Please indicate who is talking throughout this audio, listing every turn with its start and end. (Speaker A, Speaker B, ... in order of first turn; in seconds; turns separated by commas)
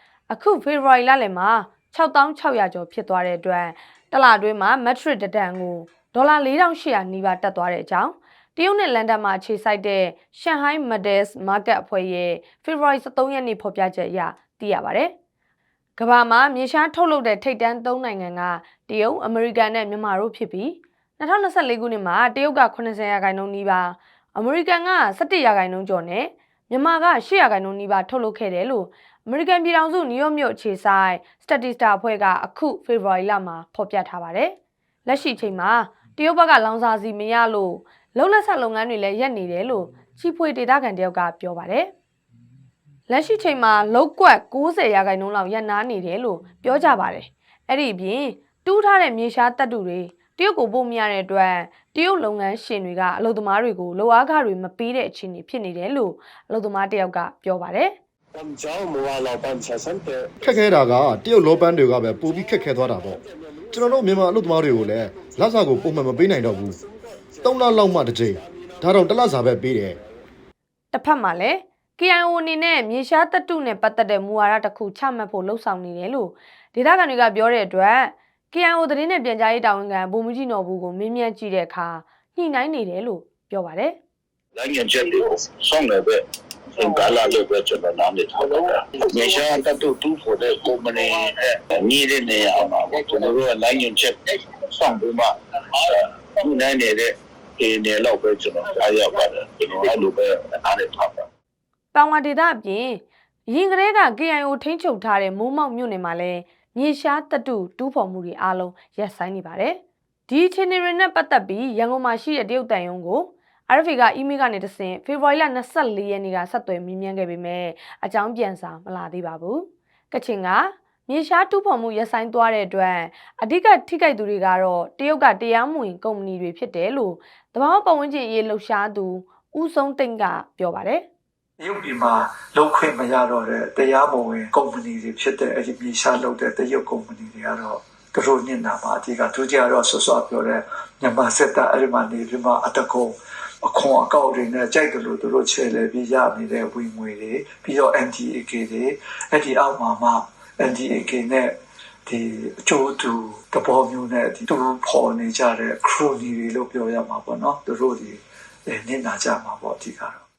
Speaker A: 0.3-15.1, Speaker A: 16.0-34.5, Speaker A: 35.1-41.9, Speaker A: 43.1-58.0, Speaker B: 58.4-60.3, Speaker C: 60.4-63.2, Speaker B: 62.2-69.2, Speaker C: 63.7-66.8, Speaker C: 67.4-70.0, Speaker A: 70.9-84.0, Speaker D: 84.5-101.3, Speaker A: 101.9-131.1, Speaker E: 131.6-160.2